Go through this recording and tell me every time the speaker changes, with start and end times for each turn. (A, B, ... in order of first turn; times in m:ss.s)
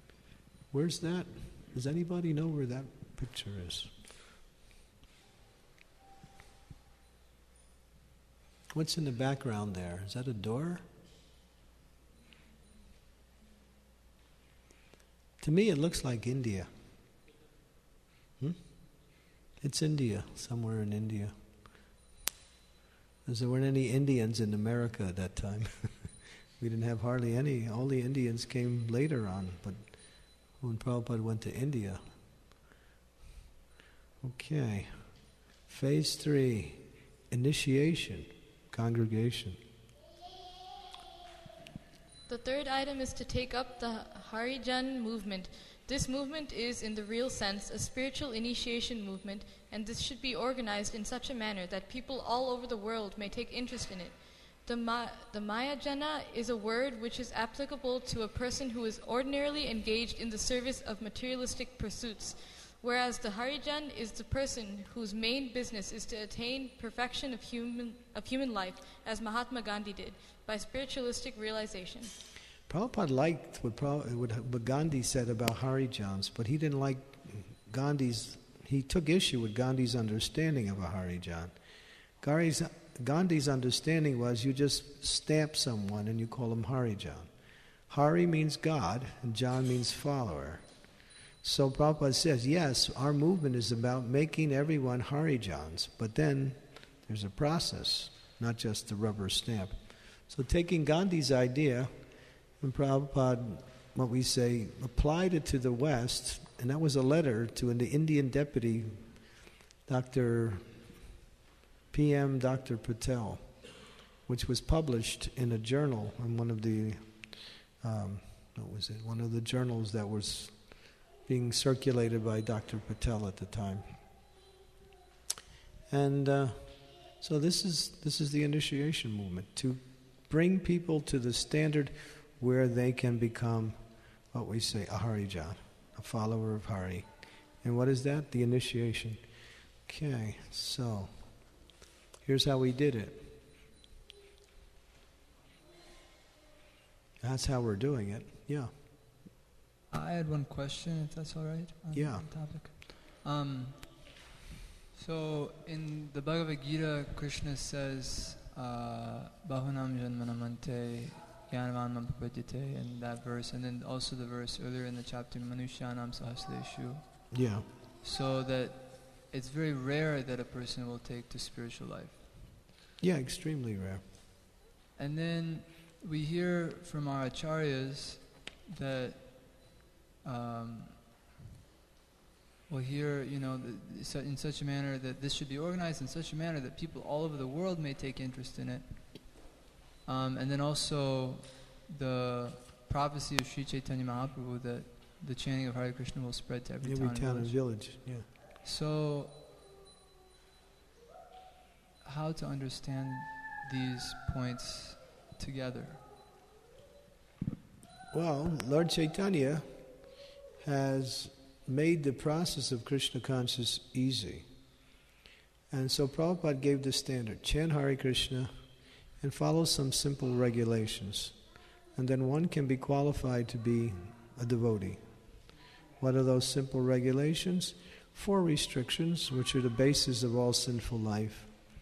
0:00.7-0:03.9 A
0:08.7-0:10.9 A
0:15.4-0:16.7 A
0:18.4-0:21.3 A
0:23.2-0:32.0 A
0:34.2-0:39.6 A
0:42.3-1:12.2 B
1:12.7-1:21.5 A
1:22.2-1:27.3 A
1:27.9-1:30.6 A
1:31.4-1:42.0 A
1:42.6-1:49.3 A
1:49.8-1:50.9 A
1:51.9-1:53.7 A
1:54.2-2:03.9 A
2:05.9-2:19.2 A
2:19.8-2:21.5 A
2:22.2-2:23.3 A
2:27.2-2:28.7 A
2:29.9-2:34.1 C
2:31.9-2:32.2 A
2:34.9-2:47.3 C
2:47.3-2:47.6 A
2:48.0-2:52.3 C
2:53.0-2:54.0 A
2:55.0-3:01.0 C
3:02.7-3:09.4 C
3:10.0-3:17.8 C
3:16.8-3:18.2 A
3:18.6-3:19.4 C
3:22.0-3:26.0 C
3:28.1-3:29.7 A
3:30.6-3:34.4 A
3:35.7-3:38.5 A
3:39.2-3:41.4 A
3:41.9-3:45.0 A
3:46.0-3:51.5 A